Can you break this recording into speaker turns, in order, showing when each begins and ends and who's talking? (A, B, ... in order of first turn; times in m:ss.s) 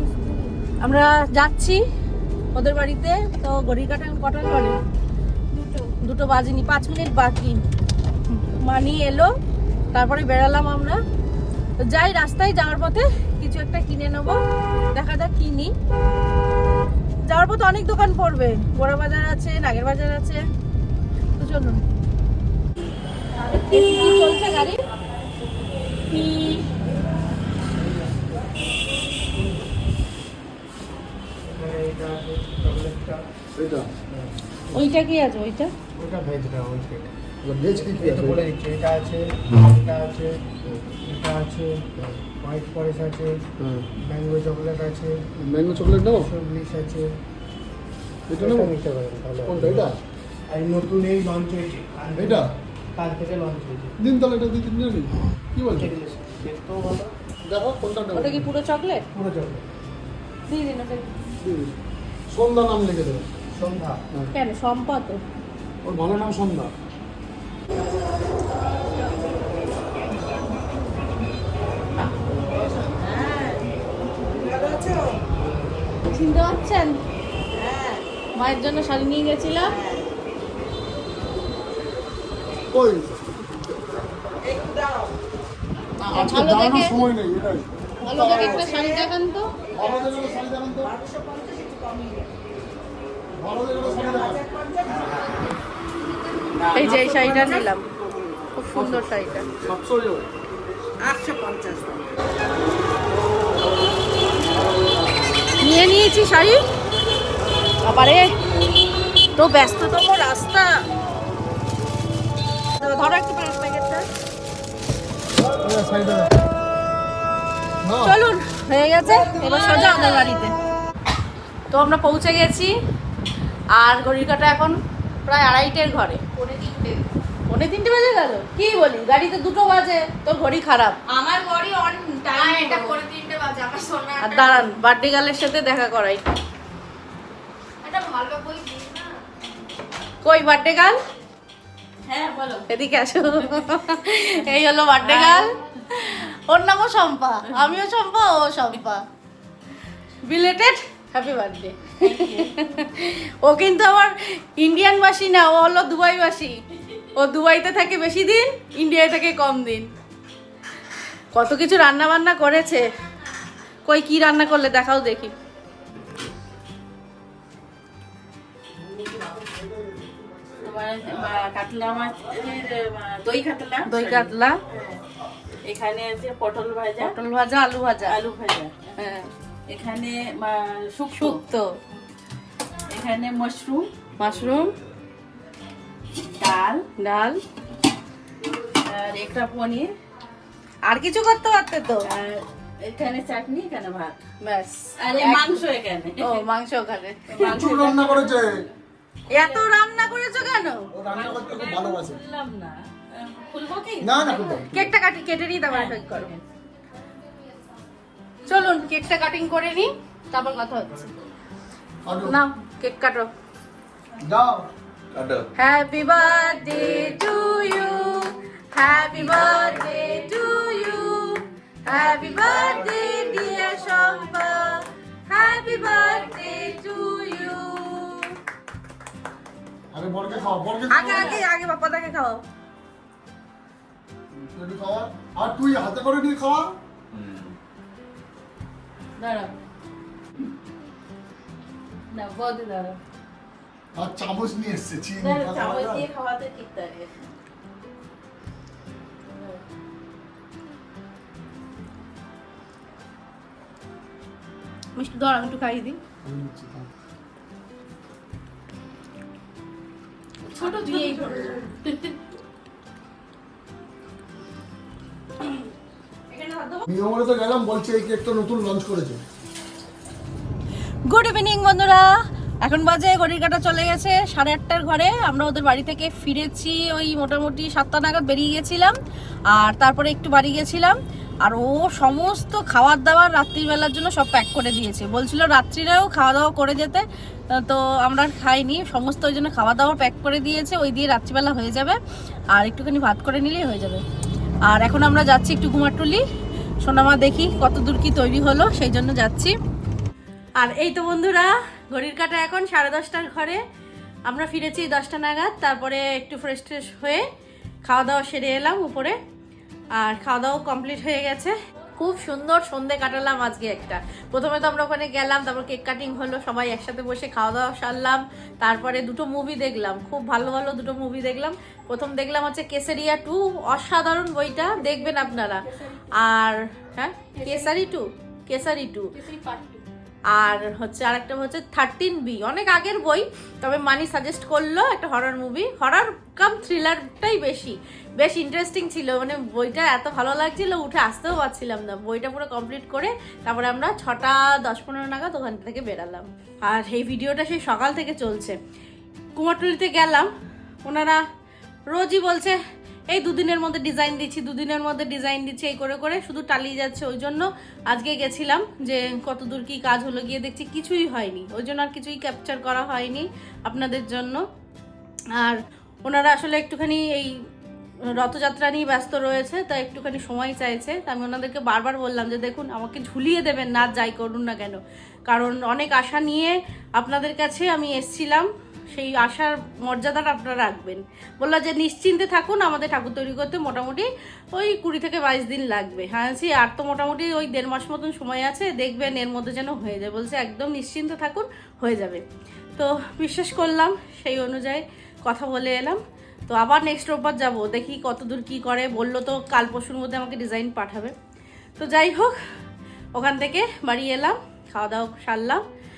0:00.8-0:01.8 A
0:02.5-0:04.8 A
0:06.0-0:07.6 A
0:08.3-0:09.3 A
0:09.9-0:11.0 A
0:11.8-0:14.4 A
0:14.9-0:15.7 A
0:17.2-0:20.4 A
0:21.4-0:21.8 A
0:23.5-0:24.8 A
0:26.1-0:26.6 A
0:31.5-0:33.2 B
0:33.6-0:33.9 C
0:34.7-0:35.7 A
0:36.0-0:37.0 B
0:37.4-0:38.4 C
0:37.7-0:39.2 B
0:39.8-0:40.3 B
0:41.1-0:43.3 B
0:43.6-0:43.9 C
0:44.0-0:45.2 B
0:45.4-0:46.3 C
0:46.0-0:47.1 B
0:48.3-0:48.7 C
0:48.4-0:49.9 B
0:49.4-0:49.9 C
0:50.5-0:52.4 B
0:52.2-0:52.5 C
0:53.0-0:53.9 B
0:54.0-0:55.9 C
0:55.7-0:57.1 B
0:57.4-0:58.4 C
0:58.1-0:59.1 A
0:59.2-0:59.6 B
1:00.5-1:01.2 A
1:01.4-1:01.7 C
1:02.3-1:03.2 C
1:03.6-1:04.0 B
1:04.3-1:05.2 A
1:05.8-1:06.7 C
1:12.8-1:13.7 D
1:16.1-1:17.0 A
1:17.6-1:18.0 D
1:18.4-1:19.8 A
1:19.7-1:20.0 D
1:22.7-1:23.2 C
1:26.1-1:27.0 A
1:26.1-1:28.7 C
1:28.0-1:29.5 A
1:29.7-1:31.0 C
1:33.4-1:34.5 C
1:36.6-1:37.7 D
1:36.7-1:37.9 A
1:38.6-1:39.5 A
1:39.5-1:40.3 C
1:41.1-1:41.7 D
1:45.6-1:46.6 A
1:47.8-1:48.3 A
1:49.3-1:50.8 A
1:52.8-1:54.1 A
1:55.5-1:56.3 C
1:57.8-1:58.1 C
1:58.0-2:00.5 A
2:01.7-2:02.7 A
2:03.7-2:06.2 A
2:07.5-2:11.0 A
2:11.3-2:11.6 E
2:12.2-2:13.0 A
2:12.4-2:13.0 D
2:13.2-2:14.1 E
2:14.2-2:16.2 A
2:17.9-2:19.1 E
2:20.2-2:21.0 A
2:22.0-2:22.7 D
2:22.7-2:29.0 A
2:25.0-2:25.5 D
2:30.2-2:36.6 A
2:32.0-2:32.8 D
2:37.1-2:39.9 A
2:41.3-2:42.8 A
2:43.8-2:45.3 A
2:48.9-2:50.8 C
2:50.6-2:54.3 D
2:53.8-2:54.6 A
2:55.6-2:57.1 D
2:57.0-2:58.2 A
2:58.0-2:58.9 D
2:59.0-2:59.3 A
2:59.7-3:01.4 D
3:01.1-3:01.8 A
3:02.9-3:03.9 D
3:04.2-3:04.7 A
3:06.2-3:06.8 D
3:07.0-3:07.4 A
3:08.6-3:09.9 D
3:10.9-3:12.1 A
3:12.0-3:14.2 D
3:14.4-3:15.6 A
3:15.0-3:16.4 D
3:16.2-3:17.5 A
3:17.3-3:18.4 D
3:17.4-3:18.7 C
3:19.3-3:20.9 A
3:19.4-3:19.6 D
3:20.9-3:22.2 C
3:21.1-3:24.6 D
3:24.0-3:24.9 C
3:24.7-3:26.3 A
3:25.7-3:26.4 D
3:28.5-3:31.1 A
3:32.0-3:32.4 C
3:32.2-3:33.3 A
3:34.2-3:34.7 C
3:35.6-3:48.4 A
3:49.9-3:51.4 C
3:50.9-3:52.4 A
3:54.3-3:56.8 C
3:59.2-3:59.5 D
4:02.1-4:03.0 D
4:03.9-4:06.1 C
4:05.2-4:07.2 D
4:09.3-4:09.6 D
4:14.9-4:16.0 A
4:16.2-4:16.9 C
4:20.5-4:22.2 A
4:20.6-4:21.6 D
4:26.3-4:26.8 A
4:26.9-4:29.2 C
4:31.1-4:32.1 A
4:32.6-4:38.9 A
4:39.5-4:52.0 A
4:52.5-4:54.0 A
4:54.7-4:56.2 A
4:56.8-4:59.5 A
5:00.6-5:03.6 A
5:04.3-5:07.2 A
5:07.8-5:09.2 A
5:10.0-5:29.1 A
5:29.2-5:29.7 D
5:30.3-5:48.6 A
5:49.4-5:50.3 A
5:50.8-5:51.2 A
5:51.9-5:52.6 A
5:53.1-6:04.4 A
6:05.3-6:07.4 A
6:08.1-6:32.2 A
6:32.8-6:41.1 A
6:41.8-6:42.3 A
6:43.1-6:45.6 A